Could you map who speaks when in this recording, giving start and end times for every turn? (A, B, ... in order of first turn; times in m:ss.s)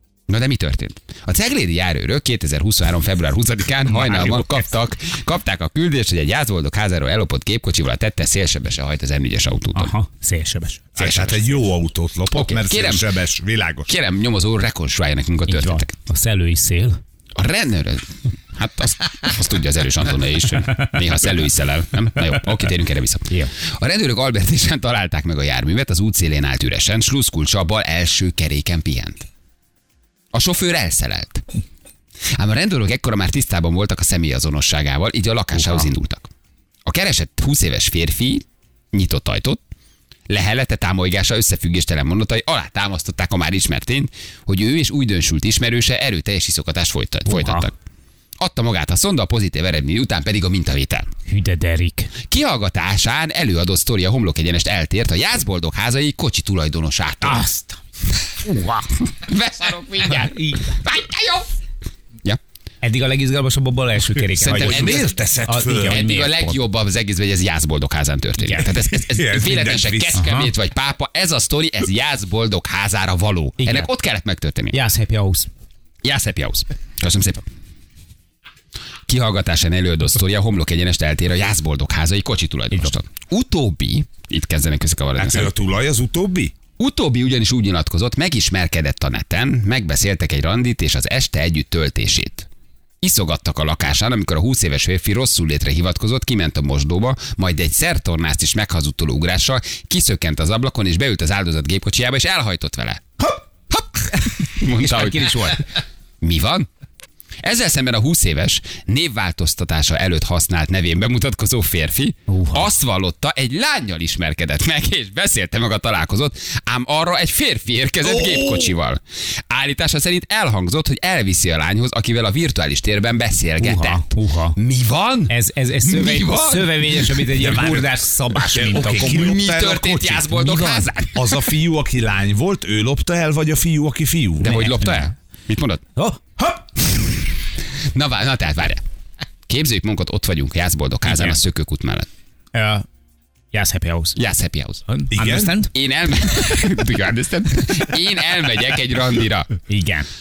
0:00.3-0:09.9 A
0:03.9-0:04.7 B
0:09.7-0:10.8 B
0:11.0-0:13.9 C
0:11.0-0:11.6 A
0:12.3-0:13.1 A
0:13.9-0:15.9 A
0:15.5-0:17.0 B
0:17.4-0:29.3 A
0:30.3-0:31.4 A
0:32.4-0:36.3 A
0:35.5-0:35.9 C
0:36.8-0:39.6 A
0:40.3-0:47.7 A
0:47.2-0:47.7 B
0:48.4-0:51.1 A
0:51.3-0:52.1 B
0:52.3-0:57.5 A
0:57.2-0:57.8 B
0:58.4-0:58.9 B
0:59.1-1:01.5 A
1:00.1-1:00.7 B
1:02.8-1:06.6 B
1:04.4-1:05.1 A
1:04.4-1:06.0 C
1:05.8-1:14.7 A
1:08.4-1:08.7 B
1:09.1-1:10.2 C
1:10.2-1:10.5 B
1:13.6-1:13.9 B
1:14.7-1:15.5 B
1:16.0-1:17.4 A
1:19.1-1:25.5 A
1:25.2-1:26.5 C
1:26.8-1:32.5 A
1:33.0-1:43.0 A
1:43.7-1:45.6 A
1:44.7-1:45.6 B
1:46.2-1:46.7 A
1:47.4-2:07.3 A
1:52.3-1:52.7 B
1:58.0-1:58.7 C
2:03.6-2:04.6 B
2:05.3-2:09.4 B
2:07.3-2:14.6 C
2:08.9-2:11.5 A
2:14.4-2:15.8 A
2:14.5-2:15.0 B
2:16.0-2:16.8 B
2:17.9-2:18.8 A
2:19.5-2:22.1 A
2:21.0-2:21.4 B
2:22.5-2:22.8 B
2:23.5-2:24.2 B
2:24.2-2:24.8 A
2:24.9-2:25.7 B
2:25.1-2:25.6 C
2:25.7-2:29.5 A
2:29.7-2:30.1 B